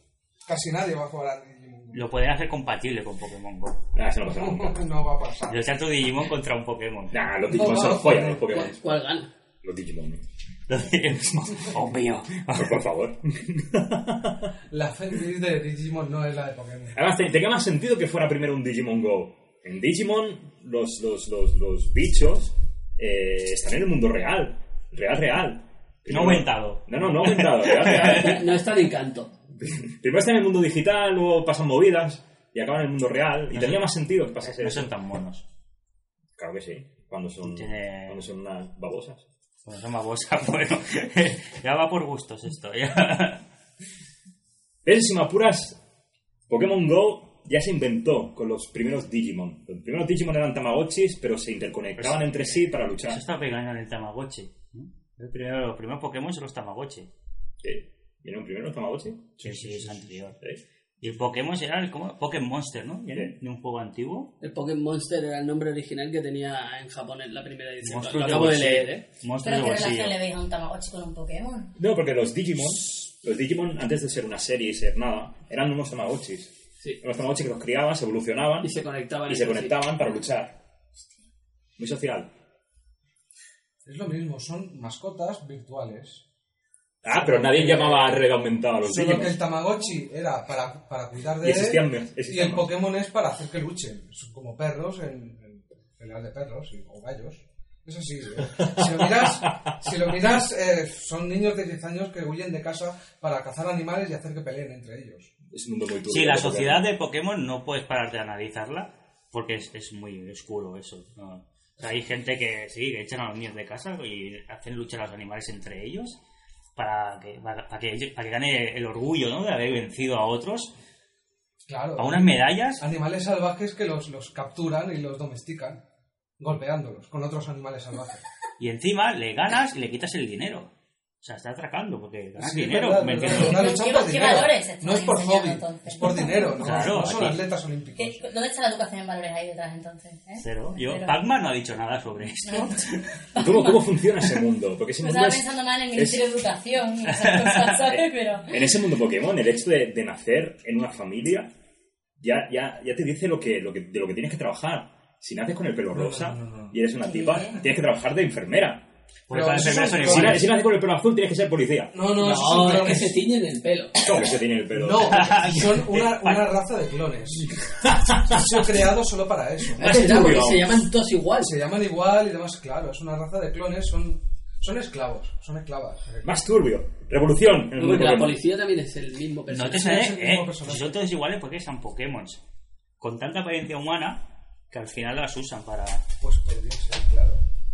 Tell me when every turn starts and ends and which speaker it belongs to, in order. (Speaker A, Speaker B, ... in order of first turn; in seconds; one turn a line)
Speaker A: 0.5-2.1
Speaker B: 1.9-3.9
Speaker C: 3.9-4.8
Speaker A: 4.3-5.7
Speaker B: 5.5-7.2
Speaker C: 7.1-8.8
Speaker A: 7.5-8.7
Speaker D: 8.5-9.3
Speaker C: 9.6-10.2
Speaker B: 10.7-12.8
Speaker C: 12.5-14.5
Speaker A: 14.7-17.0
Speaker C: 16.9-28.4
Speaker B: 26.1-28.3
Speaker D: 27.8-29.4
Speaker C: 29.6-34.9
Speaker B: 33.5-35.4
Speaker C: 36.4-39.2
Speaker B: 37.4-38.2
Speaker B: 39.6-43.4
Speaker C: 44.8-45.8
Speaker C: 46.5-53.2
Speaker B: 52.0-57.1
Speaker C: 57.6-60.6
Speaker B: 59.4-60.4
Speaker B: 61.0-64.3
Speaker D: 64.4-69.0
Speaker B: 67.8-70.2
Speaker E: 69.4-71.7
Speaker C: 71.8-78.7
Speaker D: 78.6-79.8
Speaker C: 79.2-80.5
Speaker C: 81.8-82.3
Speaker A: 83.8-86.2
Speaker C: 87.0-89.4
Speaker D: 87.1-88.2
Speaker A: 88.8-105.3
Speaker C: 91.4-92.7
Speaker C: 98.6-99.7
Speaker C: 105.5-106.9
Speaker B: 106.1-116.2
Speaker B: 116.8-120.7
Speaker A: 121.7-125.8
Speaker B: 122.0-122.8
Speaker A: 126.4-128.2
Speaker B: 128.6-130.7
Speaker B: 131.2-133.7
Speaker A: 132.4-138.3
Speaker E: 133.3-136.6
Speaker B: 136.6-137.4
Speaker E: 138.0-141.2
Speaker B: 140.4-143.1
Speaker E: 142.4-144.2
Speaker C: 143.3-146.3
Speaker E: 145.0-148.6
Speaker B: 147.2-147.7
Speaker C: 148.5-151.5
Speaker C: 152.2-158.9
Speaker A: 155.9-156.8
Speaker E: 157.0-157.6
Speaker B: 159.3-160.6
Speaker A: 159.3-160.7
Speaker C: 160.0-162.0
Speaker A: 161.9-163.2
Speaker D: 162.1-164.1
Speaker C: 164.0-165.6
Speaker A: 164.7-167.5
Speaker B: 165.0-166.6
Speaker A: 168.2-170.0
Speaker C: 169.8-170.8
Speaker D: 169.8-171.6
Speaker B: 169.9-170.6
Speaker A: 171.4-176.3
Speaker C: 176.2-178.4
Speaker D: 177.7-179.9
Speaker B: 179.5-182.4
Speaker A: 179.8-181.0
Speaker B: 183.0-186.0
Speaker A: 186.2-187.4